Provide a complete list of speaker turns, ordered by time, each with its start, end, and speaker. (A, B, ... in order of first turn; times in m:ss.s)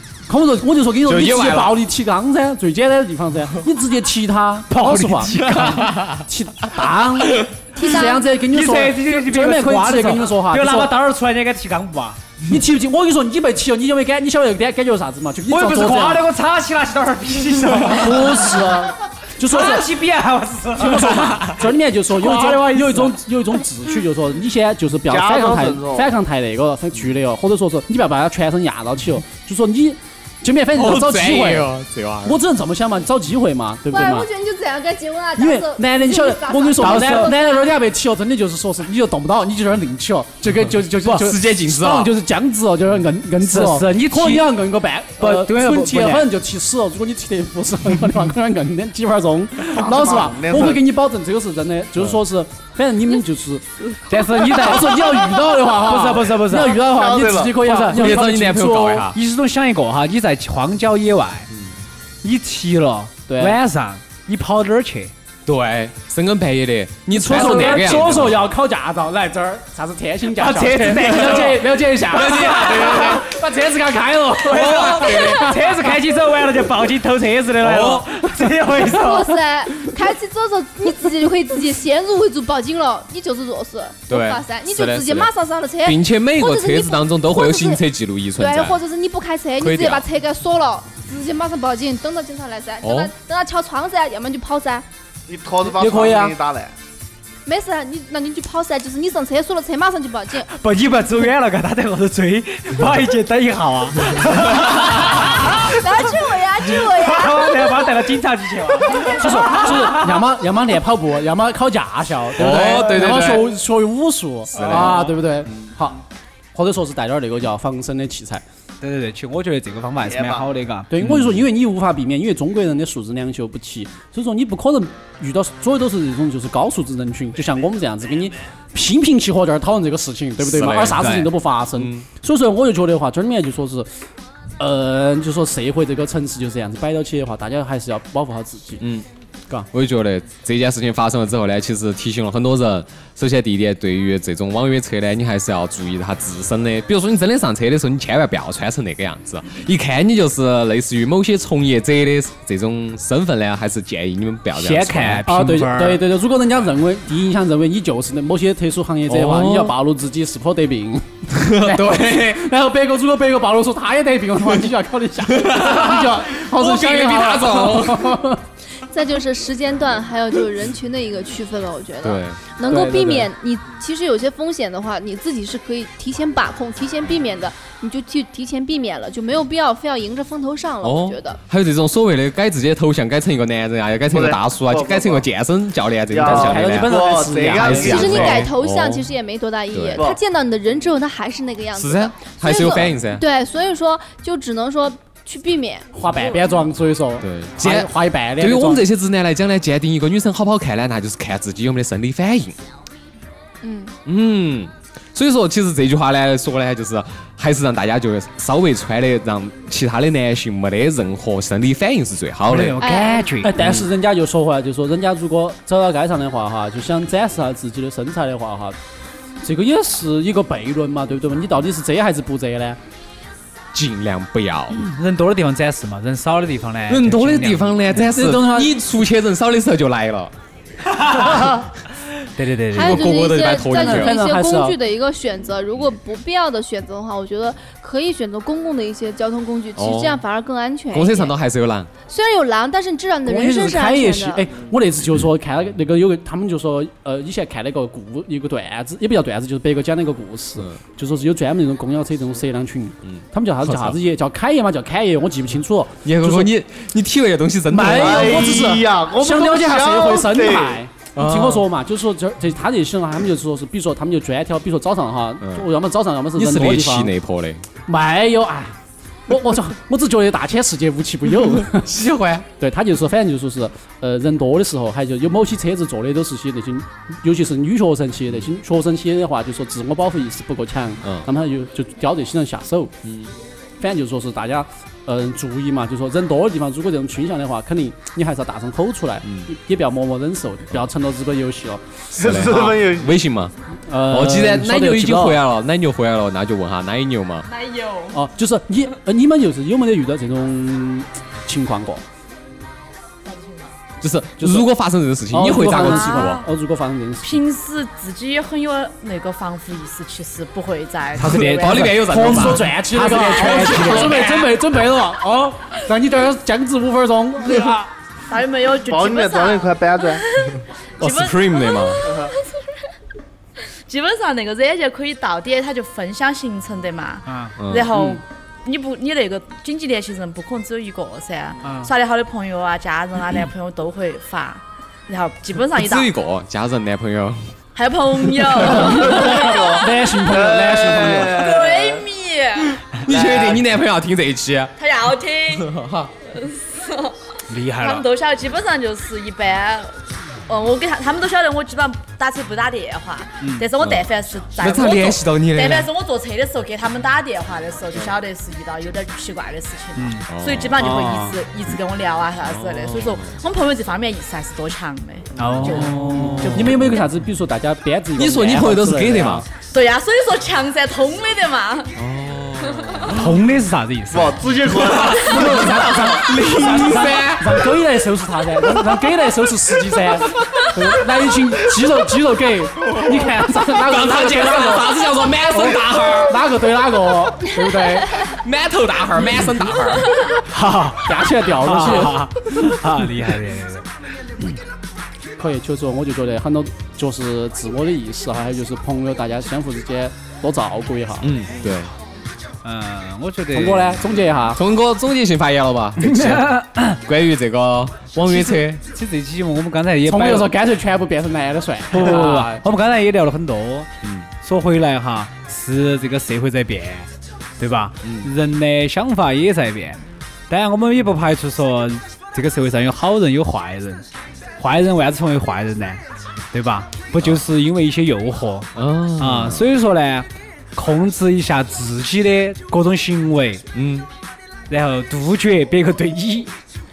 0:00.3-0:11.0 A
0:01.1-0:01.8 B
0:04.7-0:06.0 C
0:05.4-0:06.2 B
0:07.8-0:08.3 D
0:08.5-0:12.2 C
0:12.5-0:16.3 A
0:15.5-0:18.8 C
0:17.8-0:19.9 A
0:19.4-0:23.2 C
0:20.8-0:31.7 A
0:25.1-0:26.1 E
0:30.8-0:32.4 B
0:32.2-0:34.3 A
0:33.9-0:37.7 D
0:35.4-0:59.1 A
0:36.8-0:37.4 C
0:41.0-0:42.1 B
0:43.4-0:44.5 C
0:45.2-0:46.3 C
0:49.7-0:50.8 E
0:54.1-0:56.8 C
0:56.8-0:57.6 E
0:57.6-0:58.3 C
0:57.9-0:59.2 B
0:59.1-1:01.5 C
1:02.2-1:05.1 C
1:03.3-1:03.6 A
1:05.5-1:08.4 B
1:07.1-1:15.9 A
1:07.2-1:08.1 C
1:10.3-1:13.2 C
1:12.1-1:13.2 B
1:14.5-1:15.6 B
1:14.5-1:19.5 C
1:17.6-1:18.1 B
1:18.8-1:27.8 D
1:24.1-1:25.3 B
1:25.8-1:28.8 B
1:28.4-1:34.8 D
1:29.6-1:30.0 B
1:32.8-1:33.1 B
1:35.3-1:36.7 E
1:35.8-1:36.3 A
1:35.8-1:36.3 C
1:37.5-1:40.5 D
1:40.5-1:50.2 C
1:45.4-1:47.9 D
1:48.9-1:49.2 D
1:49.0-1:56.0 A
1:52.4-1:53.5 B
1:54.5-1:55.1 B
1:54.6-1:55.1 C
1:56.5-1:58.4 A
1:58.8-2:01.0 C
2:00.1-2:00.5 E
2:00.9-2:13.9 A
2:10.4-2:11.0 B
2:10.8-2:11.3 C
2:11.8-2:12.1 B
2:14.6-2:18.8 A
2:19.7-2:35.2 B
2:34.6-2:36.0 C
2:35.3-2:48.4 A
2:39.1-2:39.8 B
2:41.3-2:42.4 B
2:45.3-2:48.2 B
2:48.9-3:01.4 D
2:52.0-2:52.4 B
2:52.6-2:53.3 A
3:00.8-3:07.0 B
3:04.1-3:05.3 E
3:06.1-3:08.4 E
3:06.2-3:08.3 A
3:07.5-3:09.1 B
3:07.8-3:16.5 D
3:09.7-3:10.0 B
3:11.8-3:13.2 B
3:15.9-3:18.8 A
3:17.2-3:22.6 B
3:23.6-3:24.0 D
3:24.0-3:32.8 B
3:32.5-3:33.5 C
3:32.8-3:33.4 D
3:33.4-3:38.8 A
3:33.6-3:33.9 B
3:39.4-3:42.8 A
3:43.7-3:44.8 B
3:44.7-3:47.9 C
3:46.9-3:50.3 B
3:47.9-3:48.8 A
3:52.4-3:53.2 C
3:52.7-4:01.3 D
3:52.7-3:54.2 B
3:53.7-3:54.8 A
3:59.8-4:00.2 B
4:00.9-4:01.9 B
4:02.1-4:04.5 D
4:03.2-4:16.5 A
4:13.1-4:14.0 B
4:16.0-4:18.7 B
4:17.7-4:27.1 A
4:17.8-4:20.8 E
4:21.2-4:21.7 B
4:26.4-4:27.6 B
4:27.9-4:28.8 A
4:29.3-4:31.9 A
4:31.7-4:32.5 B
4:32.6-4:43.0 A
4:43.0-4:43.3 B
4:43.8-4:51.8 A
4:52.1-4:53.5 B
4:52.1-4:53.2 E
4:53.9-4:55.4 A
4:54.1-4:57.5 B
4:57.5-4:58.2 F
4:58.1-5:02.0 A
5:03.2-5:03.7 F
5:04.0-5:06.4 B
5:04.4-5:04.7 A
5:05.3-5:07.4 A
5:05.8-5:06.3 F
5:07.2-5:11.9 F
5:11.2-5:14.5 C
5:11.2-5:12.7 B
5:11.9-5:17.9 A
5:18.3-5:22.8 F
5:18.8-5:20.2 E
5:21.0-5:22.1 B
5:22.0-5:22.3 E
5:23.6-5:36.1 F
5:27.3-5:27.5 C
5:27.6-5:28.2 B
5:31.6-5:31.9 C
5:35.8-5:37.5 B
5:37.8-5:39.9 F
5:38.4-5:38.8 B
5:38.7-5:41.5 A
5:39.2-5:42.0 E
5:41.3-5:43.6 F
5:43.0-5:44.8 B
5:44.8-5:45.8 F
5:45.6-5:46.1 B
5:46.3-5:47.2 F
5:47.5-5:48.0 C
5:47.7-6:06.6 F
5:53.4-5:53.7 C
5:53.8-5:54.0 B
5:54.6-5:55.9 B
6:00.0-6:00.2 C
6:00.3-6:00.8 B
6:00.8-6:01.3 A
6:00.8-6:01.2 C
6:02.4-6:03.3 B
6:05.4-6:06.8 C
6:06.2-6:07.0 B
6:06.4-6:09.5 A
6:08.2-6:09.4 B
6:09.7-6:11.9 F
6:12.0-6:13.4 B
6:12.6-6:13.1 F
6:13.1-6:14.5 C
6:14.1-6:15.4 E
6:14.8-6:17.6 B
6:15.2-6:28.2 A
6:22.8-6:26.4 B
6:28.2-6:30.1 B
6:30.4-6:33.8 C
6:31.0-6:32.3 A
6:35.4-6:41.3 A
6:41.2-6:41.9 B
6:42.6-6:44.0 C
6:43.5-6:44.6 A
6:44.5-6:48.8 B
6:46.0-6:47.0 C
6:48.3-6:50.5 C
6:50.0-6:52.6 A
6:51.9-6:53.9 C
6:54.0-6:54.3 B
6:54.4-7:04.0 C
6:58.0-6:58.3 B
7:04.6-7:06.0 C
7:06.5-7:13.6 C
7:08.8-7:09.7 B
7:13.7-7:14.1 B
7:14.7-7:16.5 C